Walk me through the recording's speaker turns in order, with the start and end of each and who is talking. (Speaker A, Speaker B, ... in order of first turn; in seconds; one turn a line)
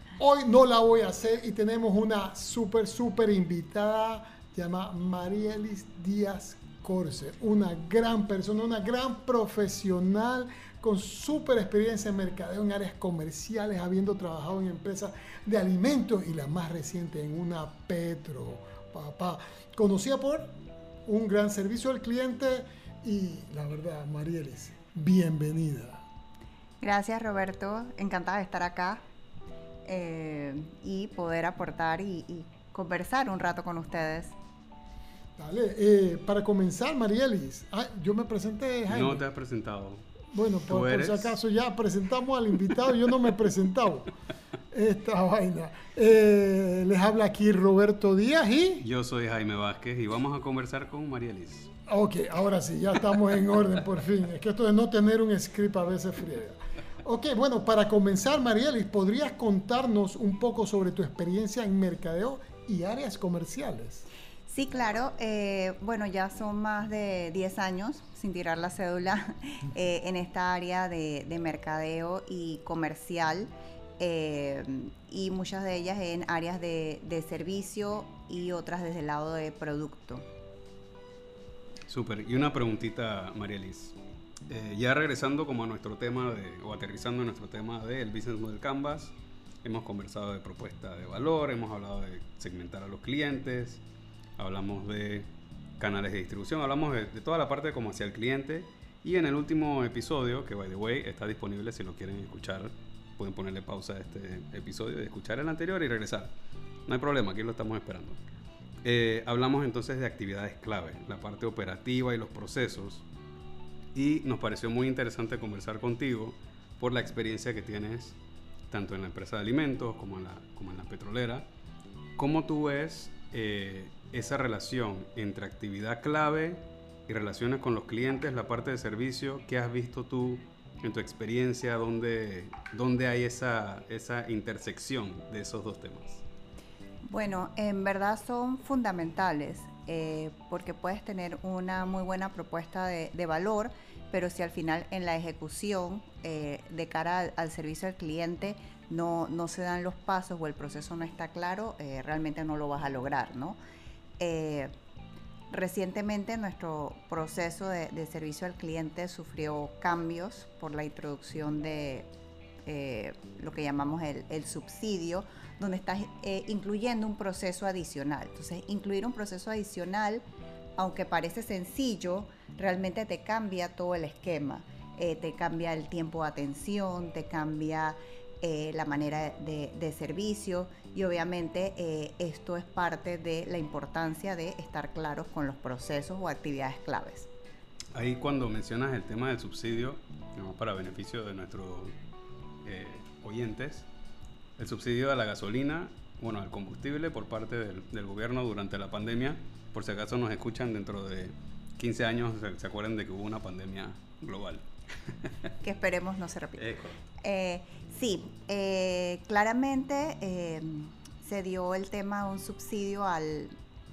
Speaker A: 0.2-20.5
Speaker A: 21.1-26.0
Speaker B: 26.8-29.0
Speaker B: 29.9-34.4
Speaker A: 35.4-39.2
Speaker C: 38.9-40.1
Speaker A: 40.3-44.1
Speaker C: 40.7-41.4
Speaker A: 44.7-48.9
Speaker C: 48.8-51.7
Speaker A: 51.9-64.1
Speaker B: 64.5-80.2
Speaker C: 81.9-84.0
Speaker C: 84.5-93.8
Speaker C: 94.4-95.3
Speaker C: 95.8-106.3
Speaker C: 106.9-108.2
Speaker C: 108.8-113.0
Speaker C: 113.9-118.2
Speaker C: 118.7-121.5
Speaker C: 122.2-136.2
Speaker B: 137.1-153.6
Speaker B: 154.2-154.7
Speaker B: 155.5-162.1
Speaker B: 162.7-170.2
Speaker B: 170.8-187.3
Speaker C: 187.9-191.9
Speaker C: 192.6-193.9
Speaker C: 194.6-205.3
Speaker B: 205.6-213.5
Speaker C: 206.6-206.9